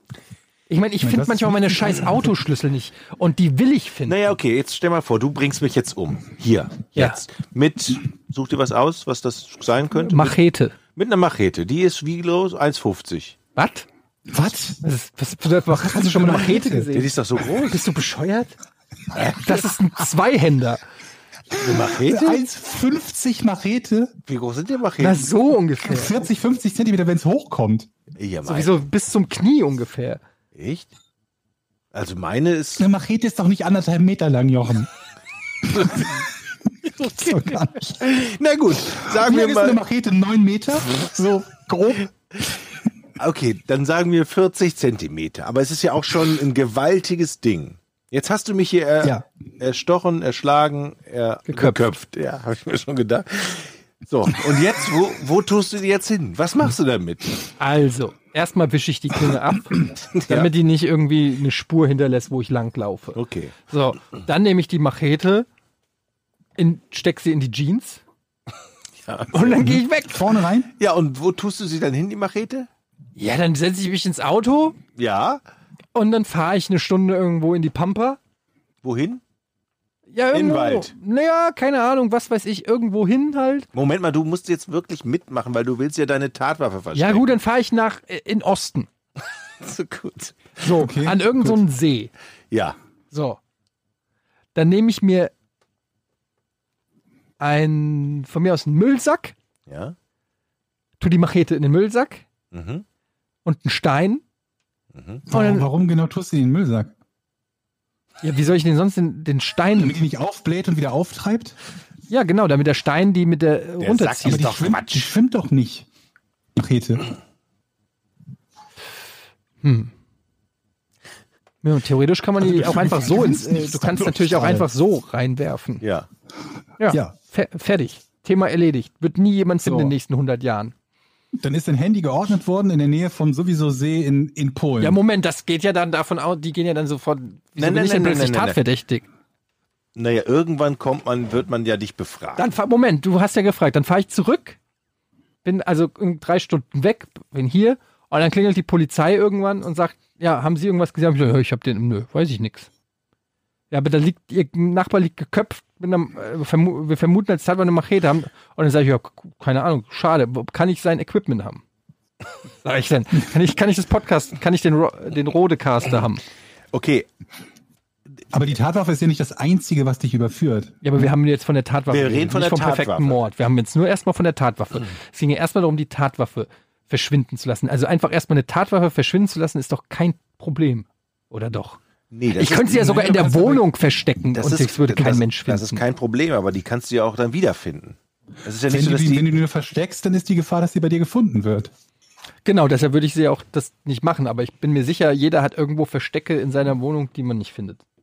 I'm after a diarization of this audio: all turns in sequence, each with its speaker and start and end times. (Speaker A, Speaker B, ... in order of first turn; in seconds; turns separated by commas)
Speaker A: 0.7-4.3, Speaker B: 1.0-2.3, Speaker C: 4.1-10.4, Speaker A: 10.0-10.8, Speaker C: 10.9-13.4, Speaker A: 13.6-13.9, Speaker B: 14.3-14.8, Speaker A: 14.8-18.6, Speaker B: 15.7-16.9, Speaker C: 16.9-17.8, Speaker C: 19.2-19.4, Speaker A: 19.3-20.8, Speaker B: 21.5-24.1, Speaker C: 21.6-22.4, Speaker C: 24.3-25.3, Speaker A: 25.0-26.1, Speaker B: 25.8-27.9, Speaker C: 28.2-28.8, Speaker A: 28.4-30.2, Speaker C: 30.6-30.9, Speaker C: 31.9-32.9, Speaker B: 32.8-34.9, Speaker C: 35.7-36.2, Speaker B: 35.7-36.2, Speaker C: 36.8-39.8, Speaker B: 37.1-38.0, Speaker B: 39.0-42.1, Speaker C: 43.2-57.5, Speaker A: 51.5-51.9, Speaker A: 57.6-65.5, Speaker C: 60.0-60.5, Speaker C: 63.1-63.6, Speaker A: 66.6-68.0, Speaker C: 69.0-69.7, Speaker A: 69.3-70.3, Speaker B: 69.6-70.7, Speaker C: 70.8-72.7, Speaker A: 73.2-74.8, Speaker C: 75.0-75.4, Speaker A: 76.0-78.2, Speaker C: 78.8-79.2, Speaker A: 80.1-83.7, Speaker C: 80.3-80.9, Speaker C: 83.7-87.4, Speaker A: 87.0-88.9, Speaker C: 89.6-90.6, Speaker A: 90.6-92.1, Speaker B: 90.8-91.6, Speaker C: 92.5-92.8, Speaker A: 93.1-93.4, Speaker A: 94.5-95.3, Speaker A: 97.4-99.3, Speaker C: 99.7-100.0, Speaker A: 101.0-102.2, Speaker C: 102.5-102.8, Speaker A: 103.5-104.2, Speaker C: 104.9-105.2, Speaker B: 105.3-106.9, Speaker A: 105.3-105.7, Speaker A: 108.2-110.0, Speaker B: 109.8-111.6, Speaker A: 112.1-114.7, Speaker C: 113.8-115.1, Speaker B: 114.2-115.9, Speaker B: 116.5-117.1, Speaker A: 119.6-119.9, Speaker A: 121.6-125.8, Speaker B: 122.4-124.7, Speaker C: 125.8-126.1, Speaker A: 126.8-130.7, Speaker B: 126.9-127.2, Speaker B: 129.6-129.9, Speaker B: 131.4-135.0, Speaker A: 134.8-139.1, Speaker C: 137.6-138.6, Speaker C: 139.9-142.5, Speaker A: 142.4-144.6, Speaker A: 145.4-152.7, Speaker A: 153.7-161.6, Speaker A: 162.6-166.2, Speaker C: 166.7-167.1, Speaker B: 168.3-171.1, Speaker A: 170.8-181.8, Speaker C: 171.9-173.2, Speaker C: 182.1-183.3, Speaker A: 182.3-185.8, Speaker B: 182.7-183.6, Speaker C: 184.3-189.3, Speaker B: 188.7-191.7, Speaker A: 192.4-197.8